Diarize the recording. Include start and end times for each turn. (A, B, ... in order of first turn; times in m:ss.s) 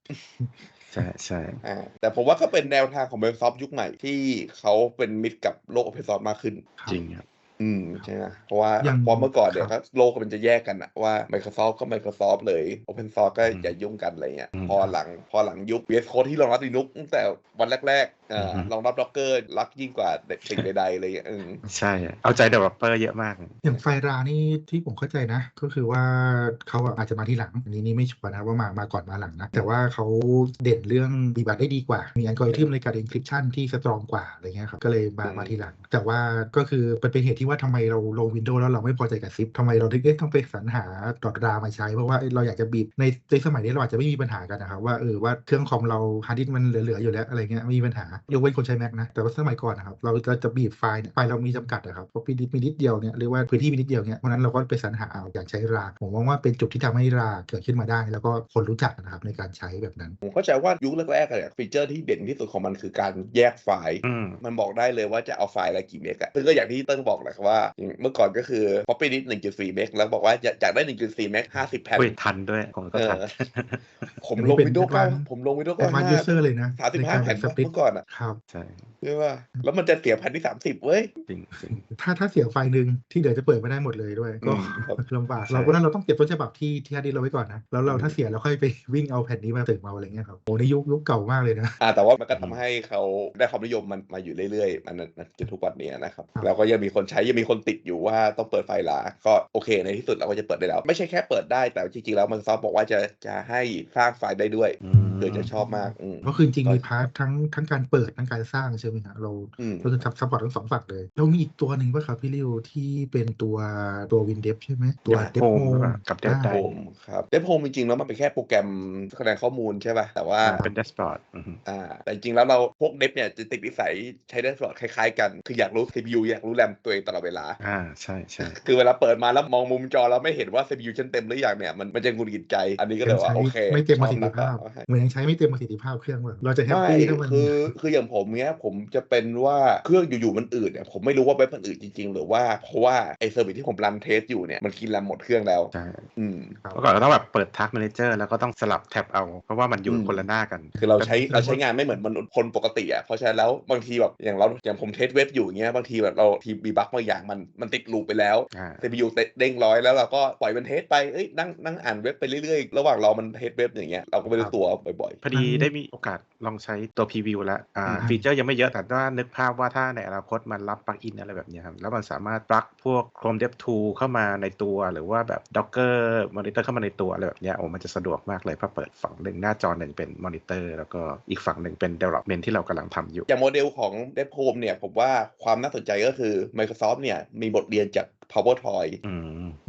0:00.9-0:01.6 A
0:01.6-0:06.7 B
0:06.9-0:07.2 A
0:07.6-0:21.6 B
0:08.8-0:09.7 C
0:13.4-0:13.7 A
0:14.5-0:14.8 A
0:18.4-0:18.7 A
0:21.6-0:23.6 A
0:23.6-1:00.2 C
0:35.2-0:35.6 B
1:00.2-1:12.2 B
1:04.0-1:04.4 A
1:12.0-1:14.2 A
1:12.9-1:13.3 B
1:14.2-1:18.0 B
1:14.4-1:18.4 C
1:18.5-1:18.9 A
1:19.0-1:21.1 B
1:21.3-1:21.8 A
1:21.7-1:31.8 C
1:24.4-1:25.0 B
1:25.4-1:25.8 A
1:27.9-1:28.1 B
1:31.8-1:46.9 B
1:32.3-1:32.6 A
1:44.8-1:45.5 A
1:44.9-1:56.6 C
1:49.6-1:50.0 B
1:55.0-1:55.3 B
1:55.3-1:56.7 A
1:56.5-2:00.7 B
2:00.4-2:01.6 A
2:01.6-2:07.6 B
2:07.6-2:08.6 A
2:08.4-2:14.9 B
2:13.0-2:17.7 C
2:16.6-2:26.6 B
2:25.7-2:26.0 A
2:26.6-2:26.8 C
2:26.7-2:30.7 A
2:29.9-2:30.2 B
2:30.8-2:31.7 C
2:30.8-2:45.2 B
2:38.5-2:38.9 A
2:45.2-3:03.3 A
2:45.3-2:45.7 C
2:47.9-2:48.3 C
3:03.3-3:09.0 B
3:09.0-3:09.6 A